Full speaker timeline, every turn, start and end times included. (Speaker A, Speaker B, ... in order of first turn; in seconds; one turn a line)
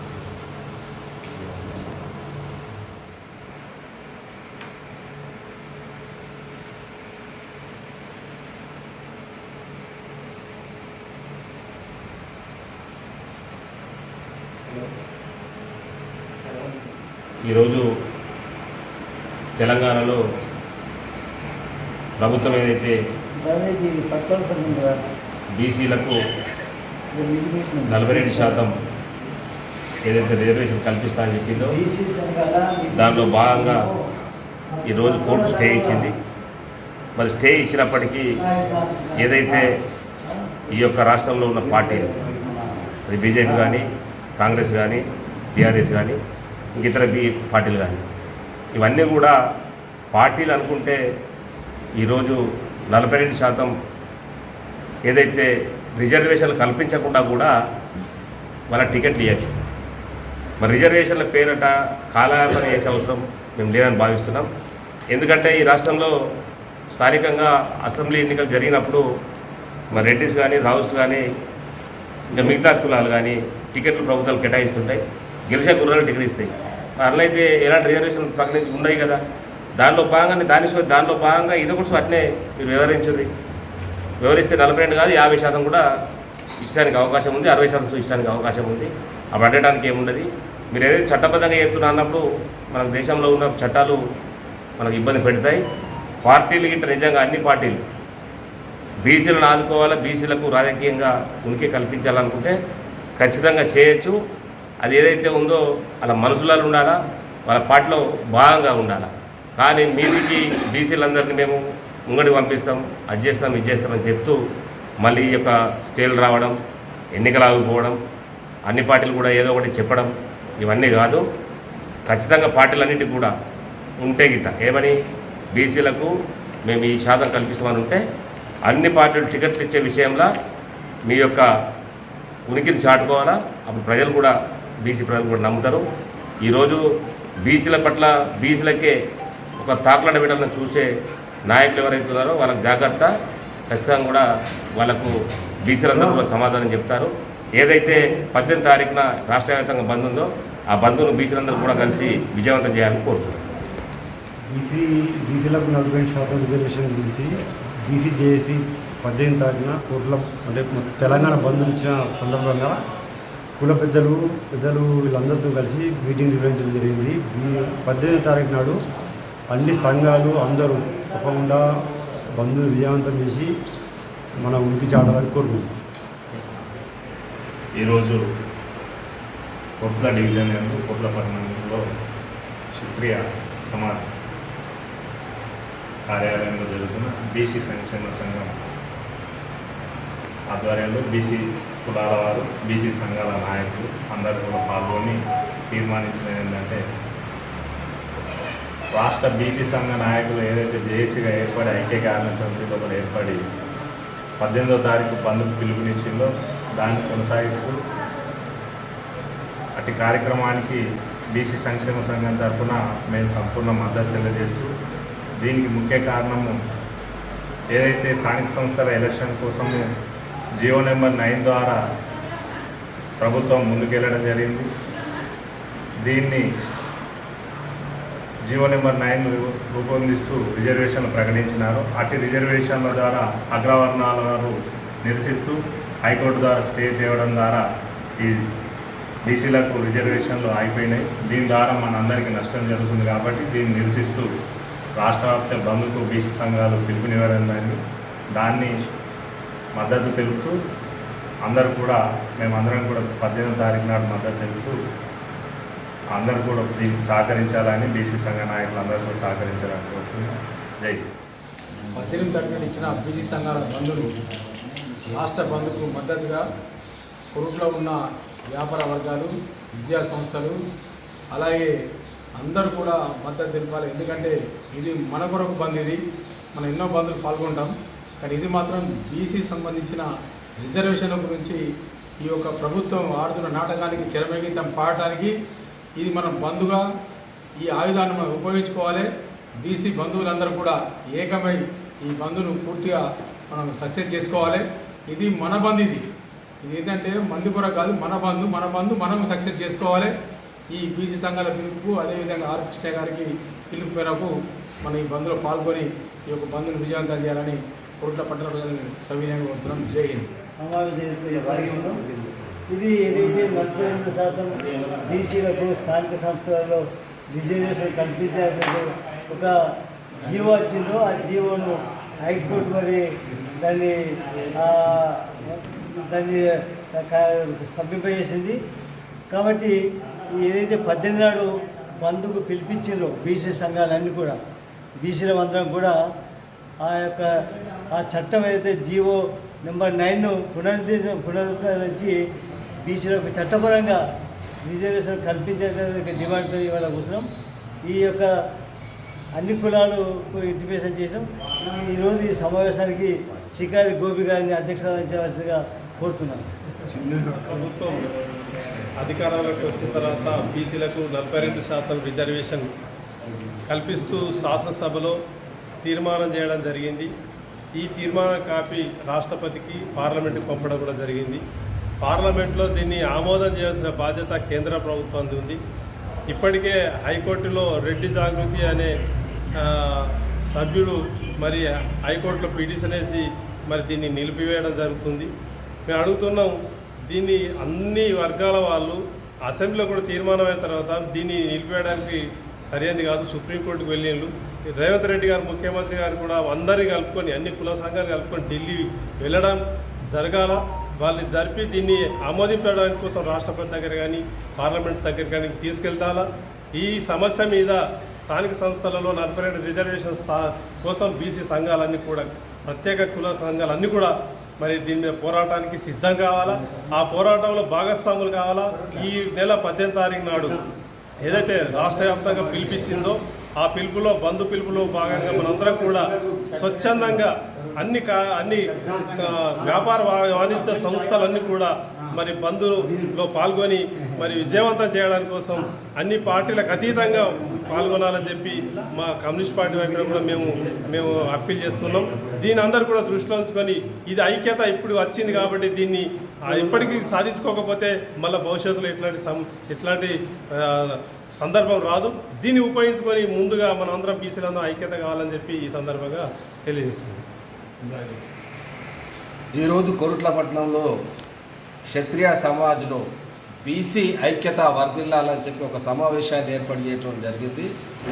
Speaker A: 17.4-17.8
Speaker A: 19.6-20.2
Speaker A: 22.2-22.9
Speaker B: 23.4-25.1
Speaker A: 25.5-26.2
Speaker B: 27.1-28.6
Speaker A: 27.9-28.7
Speaker A: 30.0-31.7
Speaker B: 31.6-34.0
Speaker A: 32.9-33.8
Speaker B: 34.7-36.1
Speaker A: 34.8-36.1
Speaker A: 37.1-38.3
Speaker B: 38.4-39.7
Speaker A: 39.2-39.7
Speaker B: 40.2-40.5
Speaker A: 40.7-42.1
Speaker B: 42.2-42.5
Speaker A: 43.1-43.8
Speaker A: 44.4-46.2
Speaker A: 46.8-48.0
Speaker A: 48.8-49.3
Speaker A: 50.1-51.0
Speaker A: 52.0-52.4
Speaker A: 52.9-53.7
Speaker A: 55.0-57.5
Speaker A: 58.7-59.6
Speaker A: 60.6-64.5
Speaker A: 65.1-66.1
Speaker A: 66.9-69.0
Speaker A: 69.9-71.2
Speaker A: 72.3-79.2
Speaker A: 79.8-83.3
Speaker A: 84.2-85.8
Speaker A: 86.6-94.0
Speaker A: 94.8-95.6
Speaker A: 96.2-97.8
Speaker A: 99.0-102.5
Speaker A: 103.2-104.2
Speaker A: 104.8-114.4
Speaker A: 115.0-116.5
Speaker A: 117.2-118.0
Speaker A: 118.7-121.2
Speaker A: 122.1-123.3
Speaker A: 124.0-124.9
Speaker A: 125.5-126.1
Speaker A: 126.6-128.0
Speaker A: 128.7-130.3
Speaker A: 131.1-131.4
Speaker A: 132.5-135.8
Speaker A: 136.4-136.8
Speaker A: 137.4-138.9
Speaker A: 139.6-140.9
Speaker A: 141.4-143.1
Speaker A: 143.7-144.2
Speaker A: 144.8-145.1
Speaker A: 145.7-153.5
Speaker C: 145.9-146.2
Speaker C: 154.5-157.3
Speaker C: 157.8-162.8
Speaker C: 163.6-168.8
Speaker C: 169.5-171.7
Speaker C: 172.4-173.5
Speaker C: 174.4-175.7
Speaker D: 177.8-178.2
Speaker D: 179.8-181.8
Speaker D: 182.7-184.0
Speaker D: 186.1-188.5
Speaker D: 190.5-195.2
Speaker D: 195.7-196.8
Speaker D: 198.9-203.4
Speaker D: 204.4-207.8
Speaker D: 209.8-210.8
Speaker D: 211.3-214.7
Speaker D: 215.4-216.6
Speaker D: 217.7-219.8
Speaker D: 220.6-221.8
Speaker D: 223.2-224.7
Speaker D: 226.0-226.4
Speaker D: 228.5-234.5
Speaker D: 235.0-237.6
Speaker D: 239.2-244.2
Speaker D: 245.0-247.8
Speaker D: 248.3-248.7
Speaker D: 249.8-250.5
Speaker D: 251.4-254.8
Speaker D: 256.1-261.0
Speaker E: 261.9-264.1
Speaker E: 265.1-266.4
Speaker E: 267.3-270.6
Speaker E: 271.3-271.7
Speaker E: 272.4-276.0
Speaker E: 276.5-281.6
Speaker E: 282.2-285.3
Speaker E: 285.9-286.8
Speaker E: 287.6-289.1
Speaker E: 289.6-296.1
Speaker E: 296.6-300.1
Speaker E: 300.7-310.3
Speaker B: 310.5-312.0
Speaker B: 312.7-319.6
Speaker B: 320.2-328.6
Speaker B: 329.3-329.8
Speaker B: 330.3-334.4
Speaker B: 335.0-335.9
Speaker B: 336.8-337.3
Speaker B: 337.9-342.1
Speaker B: 342.8-344.0
Speaker B: 344.6-347.3
Speaker B: 347.8-348.3
Speaker B: 349.4-356.5
Speaker F: 357.2-358.1
Speaker F: 359.0-362.7
Speaker F: 363.7-365.2
Speaker F: 365.8-367.1
Speaker F: 367.7-371.4
Speaker F: 372.0-375.6
Speaker F: 376.3-378.9
Speaker F: 379.6-385.3
Speaker F: 385.9-386.6
Speaker F: 387.1-420.6
Speaker F: 421.2-457.2
Speaker C: 425.6-426.6
Speaker C: 428.9-429.6
Speaker C: 430.8-431.2
Speaker G: 459.5-460.9
Speaker G: 461.9-463.0
Speaker G: 463.6-467.7